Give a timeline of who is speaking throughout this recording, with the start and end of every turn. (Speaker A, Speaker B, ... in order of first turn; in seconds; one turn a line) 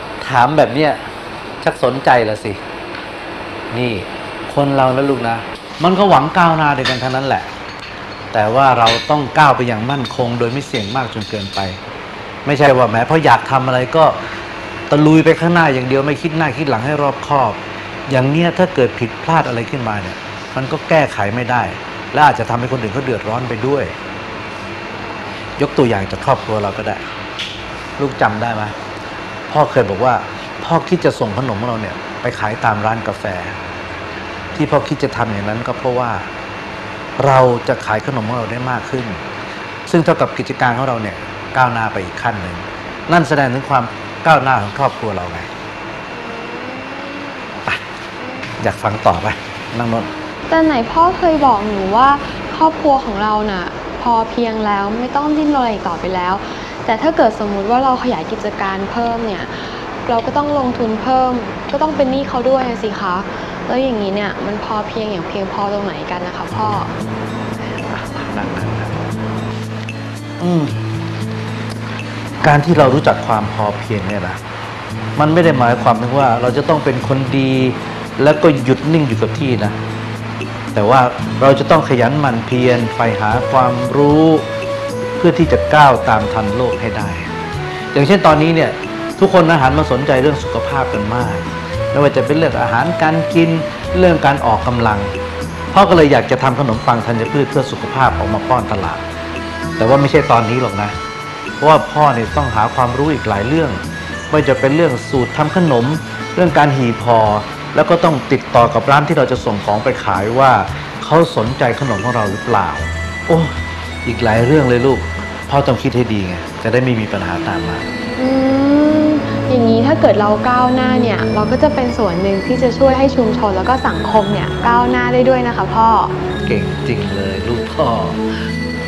Speaker A: 0.2-1.0
Speaker A: 1.6-2.6
Speaker A: 3.7-7.5
Speaker A: 8.3-11.8
Speaker A: 12.4-14.2
Speaker A: 14.9-23.9
Speaker A: 25.6-27.0
Speaker A: 28.0-28.7
Speaker A: 29.5-33.6
Speaker A: 34.5-36.3
Speaker A: 37.2-39.2
Speaker A: 39.9-45.5
Speaker B: 46.5-47.5
Speaker A: 48.6-50.1
Speaker B: 50.5-66.9
Speaker A: 67.7-69.0
Speaker A: 70.4-70.8
Speaker A: 72.4-74.4
Speaker A: 75.2-79.8
Speaker A: 80.7-84.5
Speaker A: 85.2-87.3
Speaker A: 87.9-95.1
Speaker A: 95.7-99.0
Speaker A: 99.8-100.9
Speaker A: 101.6-117.8
Speaker B: 118.2-126.1
Speaker A: 126.4-128.3